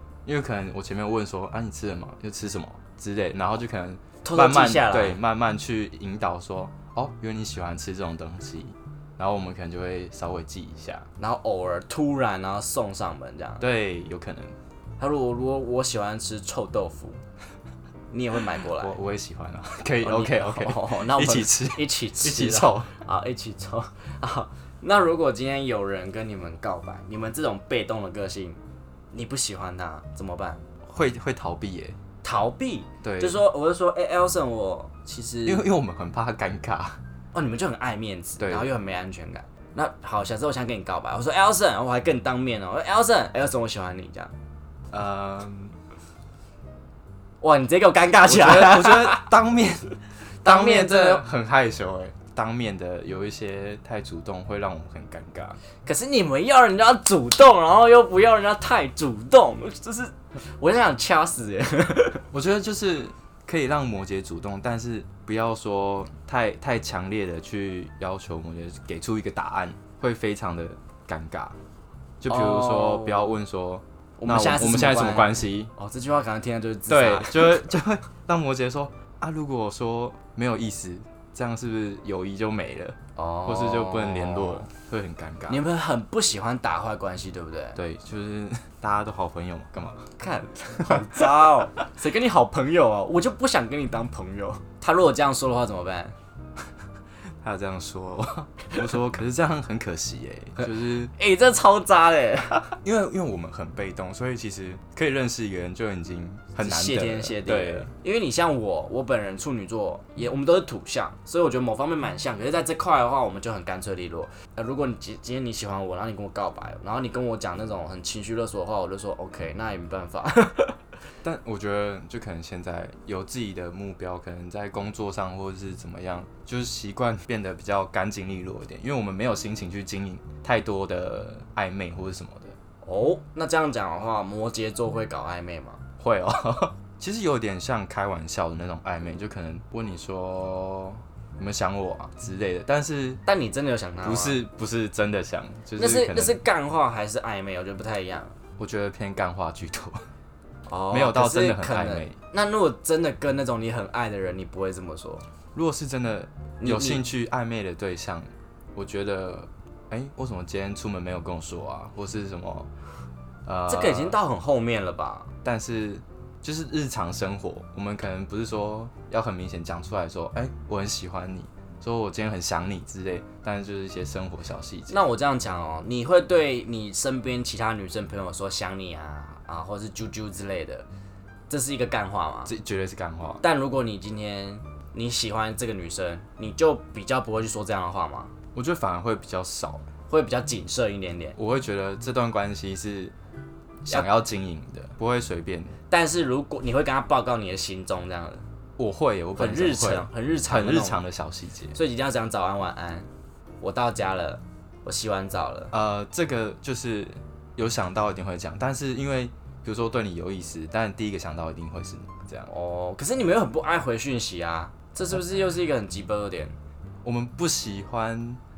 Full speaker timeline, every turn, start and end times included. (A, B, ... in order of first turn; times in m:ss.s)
0:00.2-0:11.1 A
0:04.2-0:05.2 B
0:11.2-0:13.6 B
0:13.6-0:14.5 A
0:15.0-0:17.2 B
0:18.1-0:19.0 B
0:18.7-0:23.0 A
0:20.0-0:28.6 B
0:29.1-0:30.6 B
0:30.8-0:32.0 A
0:32.2-0:35.7 B
0:33.0-0:33.4 A
0:35.5-0:37.0 A
0:37.3-0:44.3 B
0:38.4-0:38.7 A
0:44.9-0:45.8 A
0:47.4-0:49.2 B
0:48.2-0:55.6 A
0:50.4-0:51.2 B
0:55.8-1:02.2 B
1:02.3-1:11.6 A
1:12.2-1:15.7 A
1:12.3-1:13.4 B
1:14.2-1:17.7 B
1:16.9-1:25.6 A
1:23.2-1:24.7 B
1:25.5-1:27.8 B
1:27.8-1:30.1 A
1:30.2-1:36.2 B
1:37.4-1:41.1 A
1:41.2-1:42.8 B
1:42.8-1:47.9 A
1:46.6-2:00.8 B
2:01.2-2:12.6 A
2:12.8-2:15.8 B
2:16.0-2:23.2 A
2:23.3-2:24.4 B
2:24.0-2:26.4 A
2:25.8-2:28.4 B
2:28.6-2:30.1 A
2:30.7-2:35.2 B
2:30.9-2:32.2 A
2:35.6-2:42.7 A
2:36.6-2:37.0 B
2:43.4-2:44.2 A
2:43.7-2:45.3 B
2:45.4-2:55.0 A
2:54.9-3:00.9 B
3:01.5-3:02.5 B
3:02.5-3:03.4 A
3:03.4-3:08.3 B
3:08.5-3:09.9 A
3:10.1-3:11.4 B
3:11.4-3:13.1 A
3:13.8-3:15.8 A
3:15.9-3:18.4 B
3:18.8-3:21.8 A
3:19.4-3:21.0 B
3:21.7-3:23.1 B
3:23.6-3:25.7 B
3:25.7-3:32.5 A
3:32.5-3:36.6 B
3:37.0-3:38.4 A